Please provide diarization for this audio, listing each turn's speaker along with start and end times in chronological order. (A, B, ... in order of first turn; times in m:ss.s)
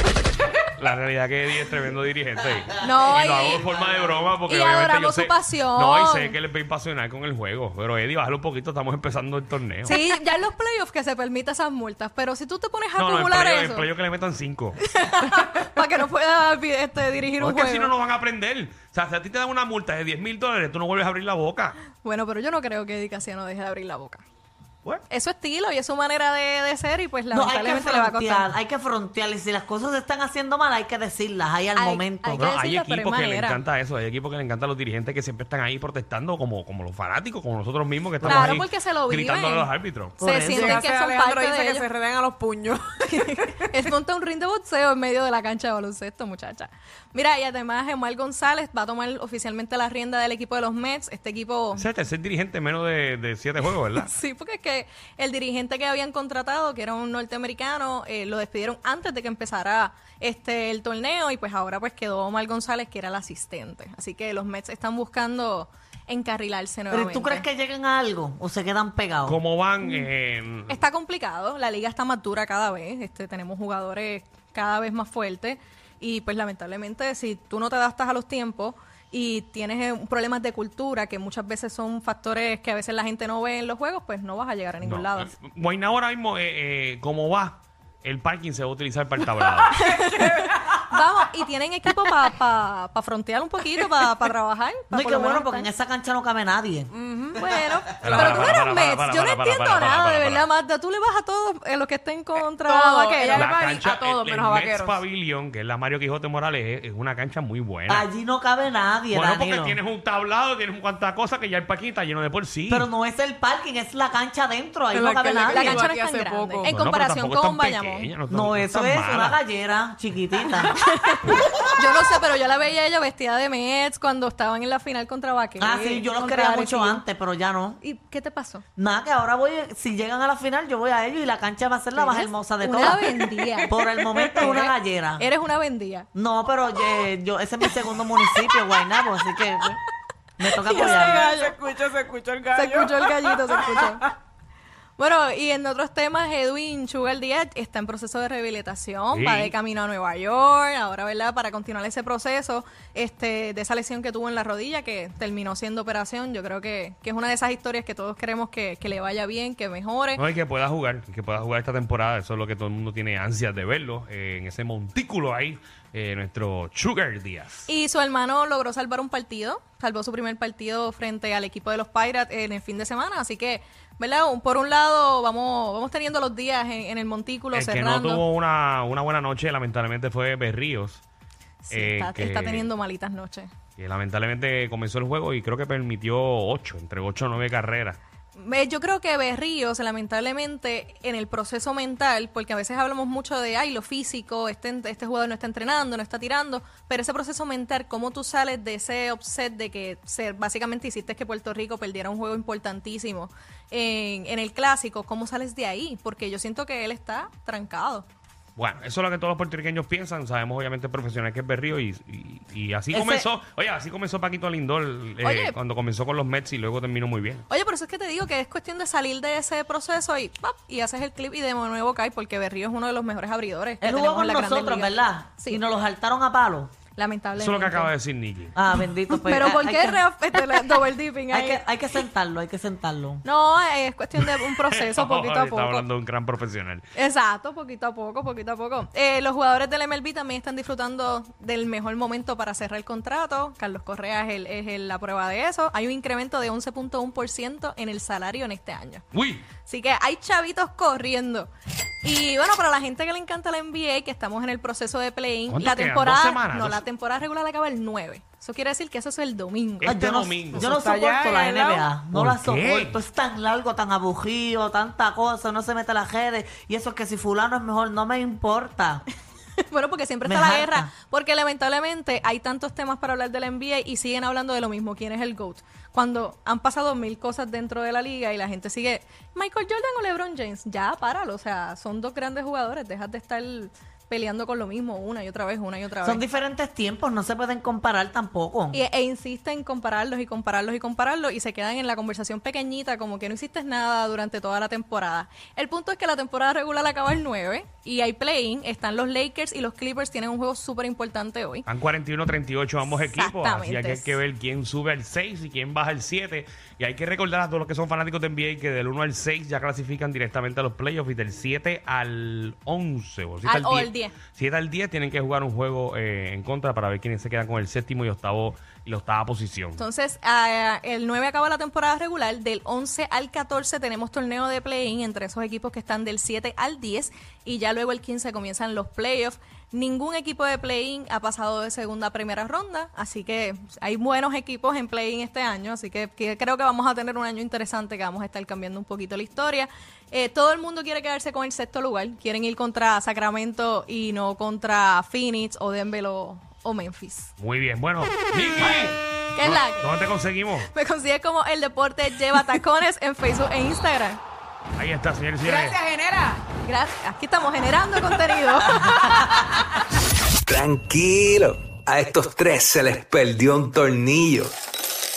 0:00.7-0:10.0 A
0:02.8-0:03.7 B
0:04.5-0:06.4 B
0:09.8-0:13.9 B
0:13.0-0:14.8 A
0:14.8-0:17.9 B
0:17.4-0:21.8 A
0:22.0-0:24.2 B
0:25.1-0:28.5 B
0:27.3-0:32.4 C
0:31.8-0:33.6 B
0:32.4-0:40.2 A
0:38.2-0:38.6 C
0:38.2-0:41.8 B
0:40.2-0:40.8 C
0:40.4-0:43.8 D
0:43.1-0:51.8 B
0:51.8-0:54.1 A
0:54.0-1:07.4 B
1:06.9-1:09.4 C
1:09.2-1:10.8 A
1:09.8-1:10.1 B
1:10.7-1:25.3 B
1:24.8-1:29.8 A
1:29.4-1:31.0 D
1:29.7-1:35.7 B
1:34.9-1:36.9 C
1:36.9-1:38.4 D
1:37.4-1:43.5 B
1:38.0-1:40.5 A
1:42.4-1:45.0 D
1:43.3-1:48.1 A
1:47.9-1:49.8 C
1:49.1-1:52.9 A
1:52.7-1:55.9 C
1:54.9-1:56.8 D
1:55.5-1:58.1 B
1:56.6-1:59.4 A
1:58.3-2:00.7 C
2:00.8-2:07.0 B
2:05.6-2:07.8 C
2:07.8-2:08.6 B
2:08.8-2:15.3 C
2:11.9-2:13.8 B
2:13.2-2:14.5 D
2:14.3-2:16.1 B
2:16.1-2:19.8 C
2:20.4-2:21.3 C
2:20.6-2:21.5 B
2:20.7-2:24.1 D
2:22.5-2:24.1 B
2:25.0-2:40.2 B
2:29.1-2:29.5 A
2:40.2-2:47.7 A
2:47.7-2:58.2 B
2:57.5-3:01.0 A
3:01.6-3:03.5 B
3:01.7-3:02.7 A
3:03.8-3:08.0 A
3:08.4-3:28.0 B
3:28.6-3:37.4 A
3:32.9-3:33.2 C
3:35.2-3:35.6 B
3:37.5-3:45.6 B
3:43.8-3:46.7 C
3:47.0-3:47.9 B
3:47.4-3:48.5 A
3:48.5-3:50.0 C
3:49.1-3:51.6 B
3:51.3-3:53.2 C
3:53.2-3:55.9 B
3:54.2-3:56.9 A
3:57.0-4:09.0 B
4:09.1-4:09.5 A
4:09.6-4:11.5 B
4:12.0-4:20.0 B
4:15.5-4:16.8 A
4:19.8-4:20.7 A
4:19.8-4:29.0 C
4:20.5-4:21.9 D
4:22.1-4:23.0 A
4:29.7-4:46.2 B
4:30.2-4:30.9 C
4:46.0-4:48.8 C
4:48.7-5:01.6 B
5:01.7-5:19.8 A
5:02.8-5:04.2 B
5:13.4-5:14.2 B
5:19.8-5:47.3 B
5:47.4-5:50.7 A
5:49.4-5:50.0 B
5:50.7-5:54.2 B
5:54.8-5:55.8 A
5:55.4-5:56.5 D
5:56.6-5:59.8 B
6:00.5-6:04.5 E